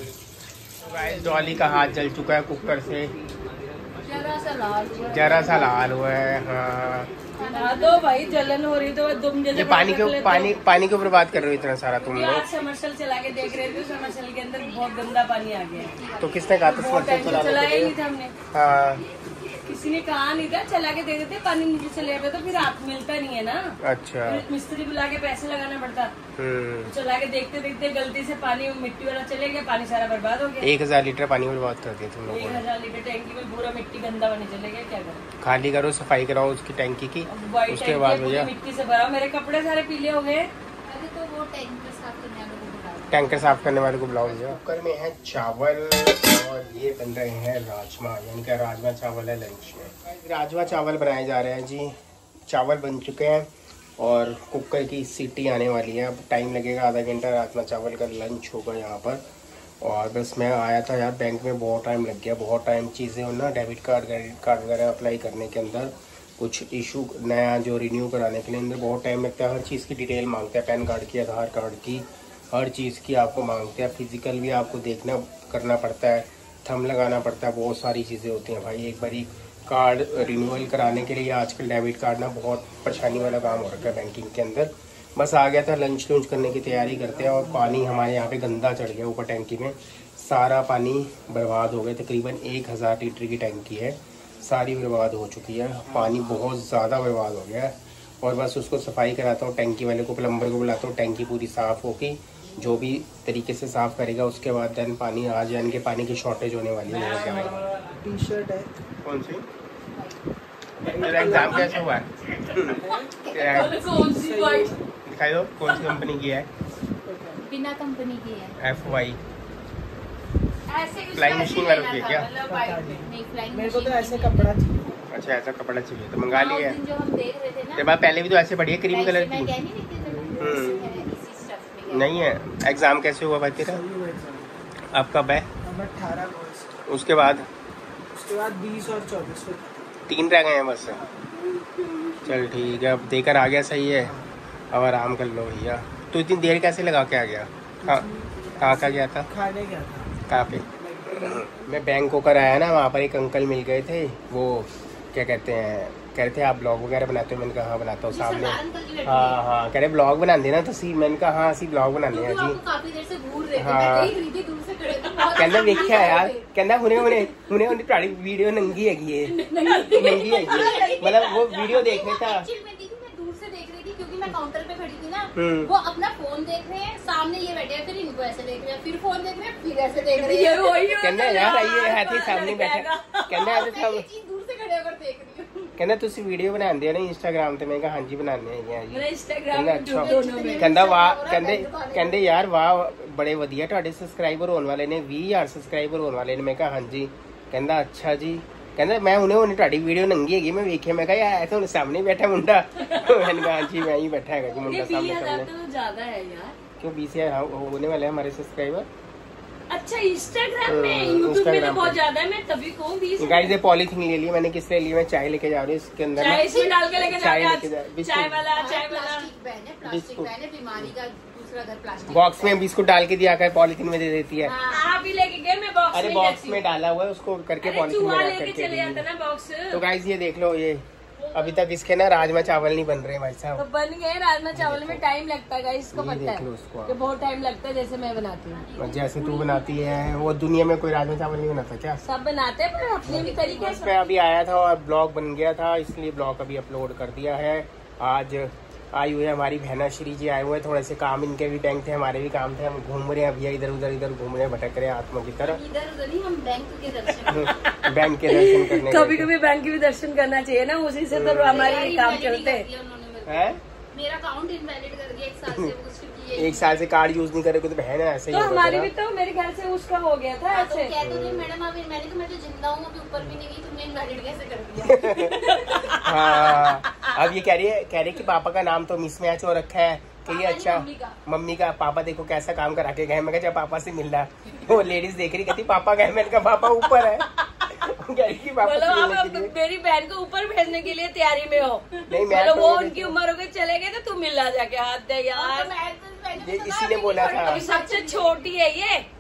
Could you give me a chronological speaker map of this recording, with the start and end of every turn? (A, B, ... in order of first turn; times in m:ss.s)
0:00.8-0:03.1 A
0:04.0-0:05.8 B
0:05.1-0:07.1 A
0:07.3-0:08.6 C
0:07.5-0:10.6 B
0:09.5-0:12.4 A
0:12.0-0:16.0 B
0:13.3-0:17.6 C
0:16.2-0:18.0 A
0:16.6-0:18.4 B
0:18.5-0:19.0 A
0:19.6-0:26.1 B
0:23.8-0:24.4 A
0:26.4-0:26.9 A
0:26.9-0:30.7 B
0:30.6-0:32.6 A
0:32.3-0:35.2 B
0:35.4-0:38.5 A
0:37.3-0:40.5 B
0:40.8-0:44.2 C
0:43.1-0:52.0 A
0:52.5-0:53.5 A
0:54.0-0:59.2 A
0:59.8-1:47.7 A
1:47.2-1:48.7 D
1:49.0-1:49.4 A
1:49.9-1:50.2 C
1:50.8-1:51.8 D
1:51.0-1:52.8 A
1:52.6-1:53.2 D
1:53.1-1:54.1 C
1:53.3-1:53.8 A
1:53.4-1:54.8 B
1:53.8-1:54.9 D
1:55.0-1:56.5 A
1:55.7-1:56.0 B
1:57.0-1:57.4 D
1:57.4-1:58.6 C
1:58.6-1:59.2 A
1:58.7-1:59.1 D
2:00.7-2:02.7 B
2:00.8-2:04.5 C
2:01.2-2:02.3 A
2:02.4-2:05.0 D
2:05.1-2:06.8 A
2:06.3-2:07.9 C
2:07.8-2:09.6 A
2:08.9-2:12.3 C
2:10.0-2:11.2 D
2:10.4-2:10.8 A
2:11.9-2:13.8 A
2:13.6-2:14.6 D
2:14.9-2:15.5 A
2:15.6-2:16.9 D
2:16.9-2:17.5 A
2:18.1-2:19.9 D
2:20.1-2:21.0 A
2:22.2-2:24.2 A
2:24.0-2:24.3 D
2:24.7-2:28.1 A
2:27.8-2:31.5 D
2:28.6-2:29.3 A
2:30.3-2:42.6 A
2:38.1-2:39.4 C
2:42.1-2:47.3 C
2:43.6-2:44.2 A
2:45.1-2:45.6 B
2:45.3-2:49.4 A
2:49.3-3:01.5 C
2:49.6-2:51.3 B
2:49.9-2:52.5 A
2:55.4-2:55.7 A
3:00.1-3:03.4 B
3:01.0-3:04.0 A
3:03.3-3:05.8 C
3:05.8-3:25.5 A
3:08.9-3:10.8 B
3:10.0-3:12.4 C
3:22.8-3:23.7 B
3:24.5-3:26.6 B
3:26.8-3:28.9 A
3:29.7-3:33.6 B
3:30.6-3:32.0 A
3:33.2-3:36.5 A
3:36.2-3:39.3 B
3:36.3-3:37.4 C
3:37.0-3:38.4 A
3:38.5-3:42.7 C
3:39.8-3:40.9 A
3:42.1-3:44.5 A
3:44.4-3:44.9 C
3:44.7-3:46.6 B
3:45.9-3:49.0 A
3:47.6-3:49.8 B
3:49.7-3:53.6 A
3:51.2-3:51.6 C
3:53.6-3:58.6 B
3:54.5-3:55.0 A
3:55.9-3:57.0 A
3:58.5-4:00.4 C
3:58.8-4:02.0 A
4:02.0-4:03.9 B
4:03.0-4:04.1 C
4:03.1-4:15.6 A
4:15.4-4:17.6 C
4:17.3-4:19.3 A
4:17.4-4:22.7 B
4:21.1-4:21.9 A
4:21.4-4:26.8 C
4:23.3-4:23.6 A
4:25.5-4:25.7 A
4:26.4-4:28.9 A
4:28.3-4:30.9 B
4:30.5-4:36.7 C
4:31.0-4:31.5 A
4:34.8-4:35.4 A
4:35.4-4:37.1 B
4:35.9-4:49.5 A
4:40.2-4:41.2 C
4:48.6-4:55.7 B
4:52.1-4:53.2 A
4:55.3-4:58.5 C
4:56.4-4:57.6 A
4:57.2-4:59.1 B